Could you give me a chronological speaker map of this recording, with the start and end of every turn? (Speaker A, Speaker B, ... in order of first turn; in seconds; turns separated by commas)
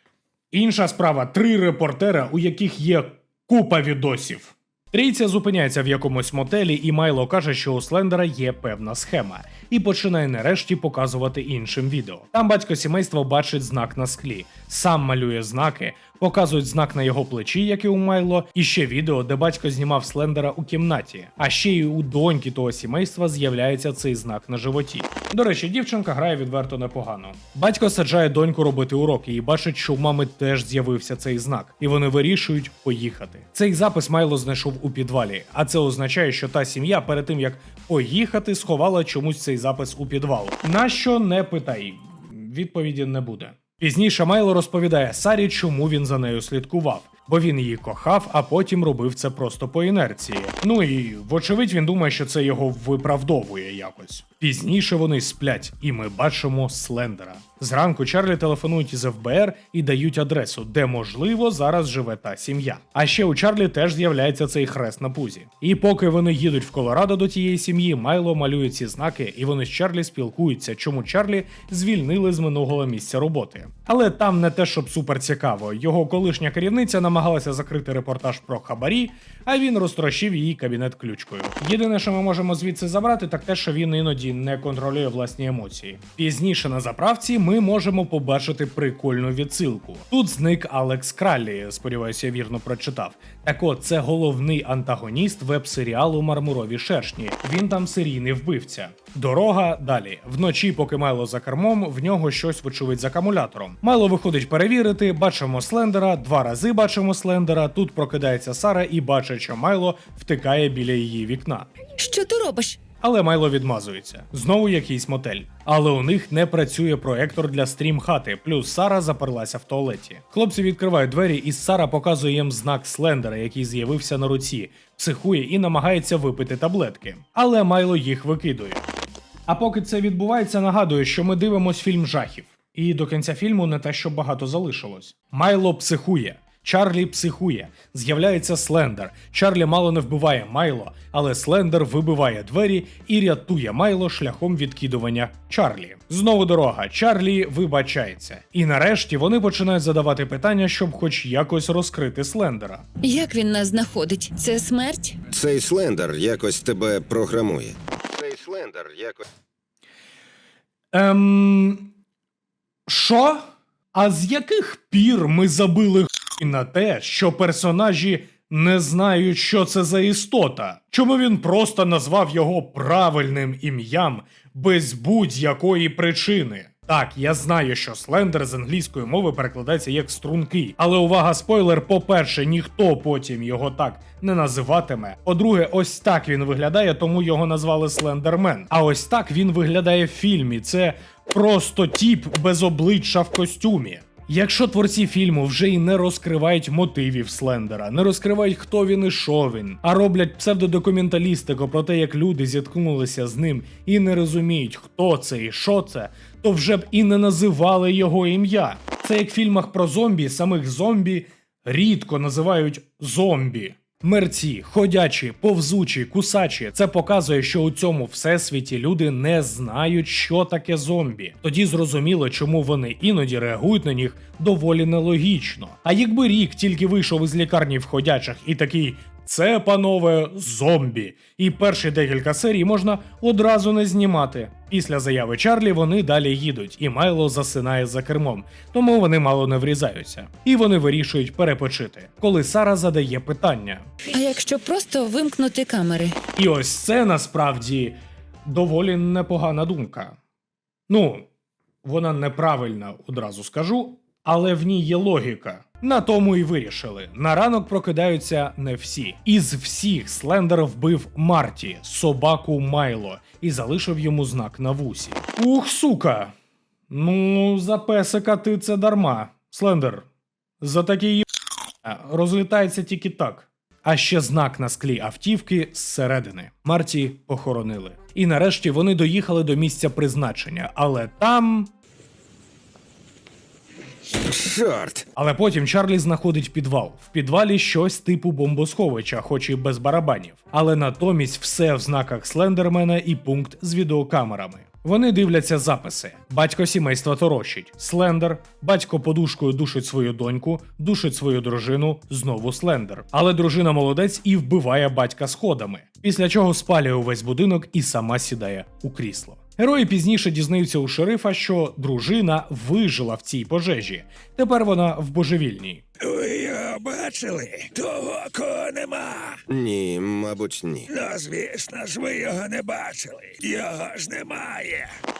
Speaker A: 0.5-111.7, Speaker B: 112.0-112.8, Speaker A: 113.0-128.8, Speaker A: 129.5-152.8, Speaker B: 153.0-155.2, Speaker C: 155.3-159.2, Speaker A: 160.9-161.9, Speaker A: 162.9-243.9, Speaker B: 244.1-246.2, Speaker A: 246.3-250.2, Speaker A: 250.9-251.3, Speaker A: 251.8-266.3, Speaker A: 266.9-270.1, Speaker A: 270.6-271.2, Speaker A: 271.8-281.7, Speaker C: 284.1-285.1, Speaker A: 285.1-315.8, Speaker D: 316.0-319.4, Speaker C: 319.5-320.9, Speaker D: 320.9-324.9